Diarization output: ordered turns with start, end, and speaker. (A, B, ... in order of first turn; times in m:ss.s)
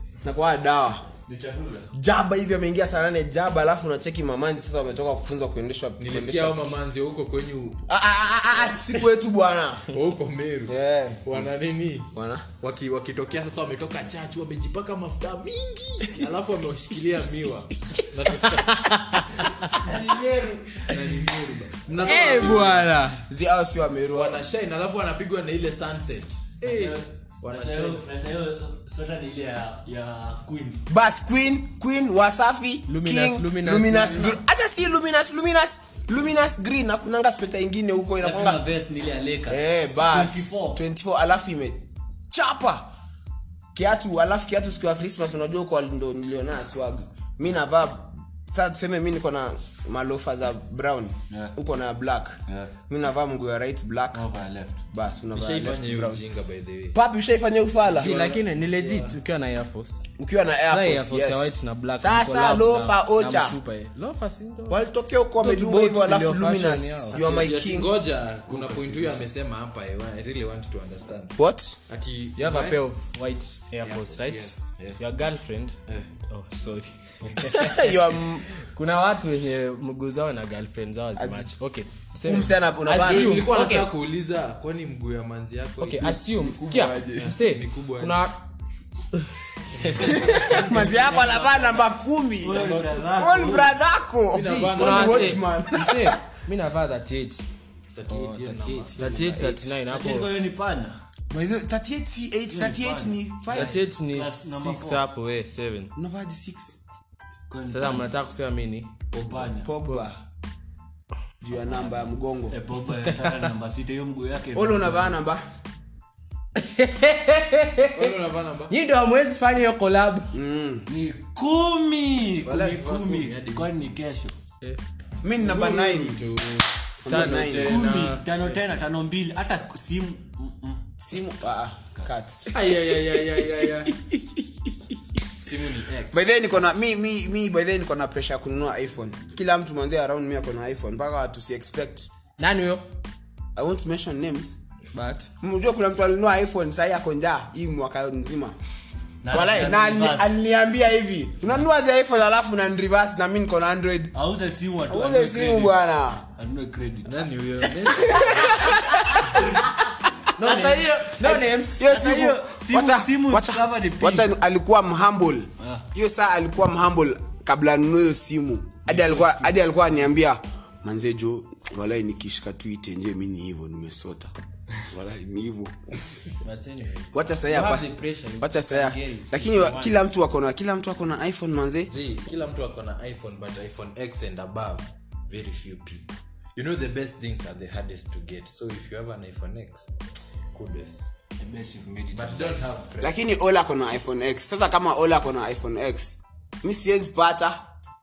0:00.2-0:01.1 A
0:01.2-0:01.9 B
0:01.9-0:06.7 A
0:06.0-0:07.8 C
0:07.9-0:09.9 A
0:09.9-0:19.0 C
0:10.7-0:11.4 A
0:12.1-0:12.5 A
0:18.5-0:19.8 D
0:19.8-0:20.9 B
0:20.8-0:22.9 C
0:22.0-0:23.2 D
0:23.3-0:24.4 A
0:24.1-0:28.0 C
0:26.6-0:30.8 B
0:30.9-0:38.6 A
0:32.9-0:34.4 D
0:38.2-0:40.8 B
0:39.5-0:42.9 A
0:43.7-0:54.2 A
0:52.5-0:52.7 B
0:54.1-0:54.8 B
0:54.9-0:56.2 A
0:55.3-0:57.0 C
0:56.9-0:58.2 A
0:57.9-0:59.2 C
0:57.9-1:00.0 D
1:00.2-1:03.6 A
1:00.7-1:04.8 D
1:04.7-1:07.9 A
1:05.4-1:07.2 D
1:07.1-1:11.4 C
1:11.4-1:11.8 A
1:11.9-1:12.8 C
1:12.4-1:15.8 D
1:13.8-1:15.0 C
1:16.3-1:17.9 D
1:17.5-1:18.4 A
1:18.6-1:23.9 D
1:21.2-1:21.5 A
1:22.2-1:23.5 A
1:23.0-1:26.2 C
1:25.8-1:28.4 D
1:26.3-1:27.3 A
1:27.2-1:28.2 C
1:29.7-1:30.6 D
1:29.8-1:30.2 C
1:29.9-1:36.2 A
1:30.2-1:31.8 B
1:32.4-1:33.8 B
1:34.3-1:35.4 C
1:34.7-1:37.4 D
1:37.9-1:39.0 C
1:38.4-1:38.8 B
1:38.9-1:39.8 A
1:39.0-1:40.3 D
1:39.8-1:41.0 B
1:41.3-1:43.8 A
1:42.5-1:45.0 B
1:43.5-1:45.9 D
1:46.0-1:46.8 A
1:47.5-1:48.1 B
1:47.7-1:48.9 D
1:49.1-1:49.7 B
1:49.5-1:50.2 A
1:51.4-1:52.6 A
1:51.6-1:55.2 B
1:54.5-1:55.4 A
1:56.6-1:58.1 D
1:57.9-1:58.7 C
1:58.7-2:00.3 D
2:00.3-2:00.9 A
2:00.9-2:04.3 B
2:02.4-2:03.9 C
2:05.2-2:06.3 A
2:05.4-2:06.7 C
2:07.0-2:07.8 A
2:07.0-2:08.3 D
2:07.2-2:08.6 C
2:07.5-2:10.9 B
2:11.0-2:12.5 A
2:12.5-2:13.9 C
2:13.8-2:14.7 A
2:15.4-2:16.2 C
2:16.1-2:22.1 A
2:22.4-2:22.8 D
2:23.6-2:24.6 A
2:24.9-2:25.3 D
2:25.4-2:28.6 A
2:29.2-2:30.4 B
2:29.3-2:34.1 A
2:34.1-2:35.8 B
2:34.9-2:36.2 A
2:36.4-2:38.2 B
2:37.0-2:38.6 C
2:38.0-2:39.3 A
2:39.3-2:39.7 B
2:40.4-2:41.9 D
2:40.4-2:44.3 B
2:41.4-2:56.1 A
2:45.6-2:45.8 B
2:48.9-2:49.4 B
2:56.4-2:57.1 C
2:57.1-3:01.9 A
2:57.4-3:00.1 D
3:01.9-3:09.9 C
3:10.5-3:11.1 C
3:11.4-3:12.6 B
3:12.1-3:13.2 C
3:13.0-3:17.6 A